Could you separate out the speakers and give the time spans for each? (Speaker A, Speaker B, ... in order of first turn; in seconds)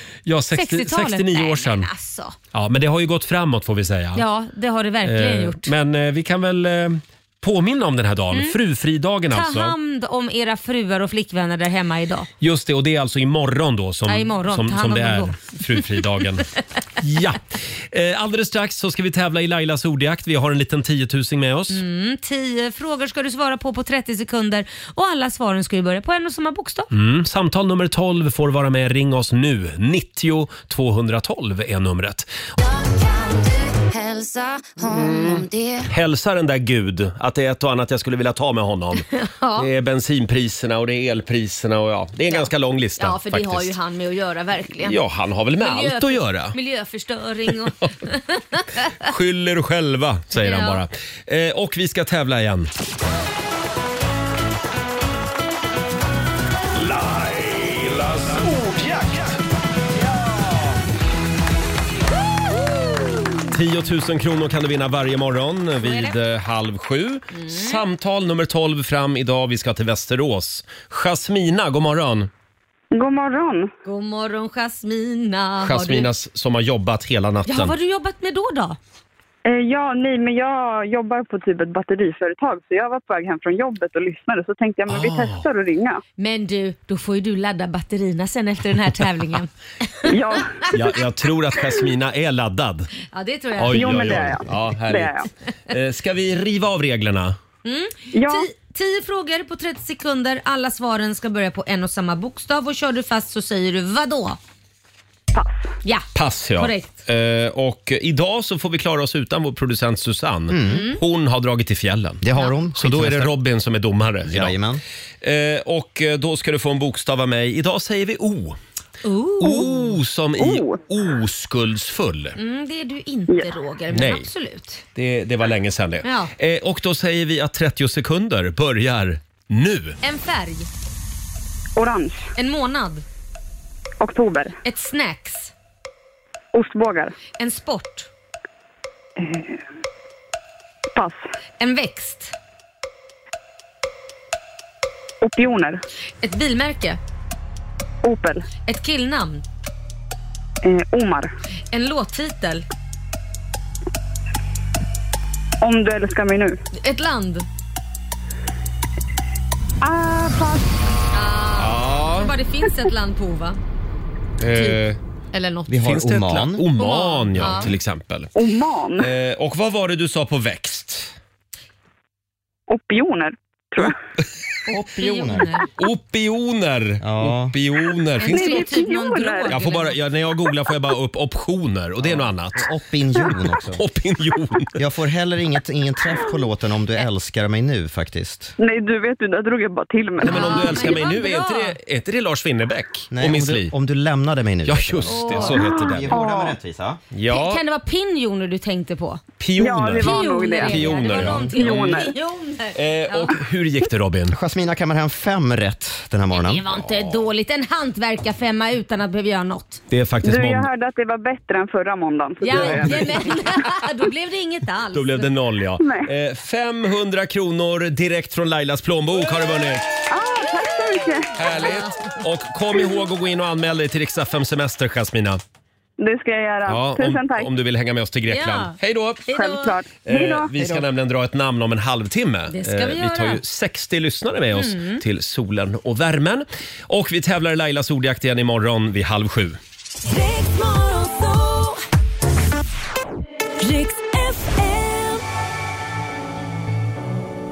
Speaker A: 0.2-1.9, 2.5-4.2, 5.0-9.7, 12.4-16.4, 17.0-21.8, 26.9-32.3, 34.9-39.0, 39.6-43.7, 44.8-46.5, 49.0-52.7, 56.9-59.0, 63.5-72.3, 75.6-77.7, 84.9-85.5, 90.7-92.9, 93.6-95.1, 95.7-97.3, 106.1-112.2, 112.8-114.6, 115.2-118.6, 119.4-122.4, 123.9-124.3, 124.9-130.0, 161.6-162.3, 164.4-165.0, 165.8-168.3, 169.0-171.1, 175.8-178.8, 179.5-182.7, 183.7-184.7, 190.2-193.7, 194.6-196.1, 197.1-197.6, 199.4-202.1, 202.7-204.4, 206.8-207.2, 209.9-210.7, 214.9-219.8, 221.3-225.4, 226.7-229.2, 230.0-239.6
Speaker B: 0.5-2.4, 4.1-5.7, 9.3-12.3, 14.1-15.8, 21.7-26.9, 39.1-39.7, 42.3-45.0, 45.6-48.9, 50.3-50.8, 65.8-66.1, 67.3-67.8, 73.8-76.1, 77.5-78.8, 86.2-90.0, 93.1-94.0, 97.6-104.4, 106.6-106.9, 110.7-111.0, 119.0-119.8, 122.3-124.8, 126.0-126.3, 130.0-130.7, 132.3-133.0, 134.6-135.5, 137.4-138.1, 141.6-142.3, 146.2-147.0, 148.7-149.4, 151.7-152.6, 156.7-157.4, 161.1-163.6, 164.5-164.8, 165.3-165.9, 166.8-167.7, 174.7-175.7, 178.2-180.0, 190.2-191.8, 195.1-196.0, 197.3-199.2, 200.0-203.3, 206.3-209.8, 212.4-215.3, 221.6-222.1, 228.3-228.8, 229.3-229.8, 232.5-233.4, 234.5-235.0, 240.4-241.2
Speaker C: 32.6-35.9
Speaker D: 72.9-73.7, 79.4-86.0, 90.0-90.7, 93.7-95.3, 98.1-98.5, 105.3-105.7, 120.4-120.8, 131.8-132.2, 134.0-134.6, 136.5-137.1, 139.2-139.6, 140.9-141.2, 145.2-145.8, 148.0-148.4, 150.6-151.3, 155.6-156.6, 159.8-160.8, 168.3-169.1, 172.7-173.9, 178.2-179.6, 188.6-191.0, 195.7-196.5, 199.6-202.1, 210.2-213.4, 215.8-216.1, 220.1-221.3, 226.0-227.5, 229.3-230.5
Speaker E: 110.5-110.9, 112.2-113.3, 114.2-114.8, 165.7-166.7, 174.7-175.5, 177.0-177.5, 182.0-183.8, 184.8-188.5, 193.1-197.0, 204.3-206.7, 230.6-230.8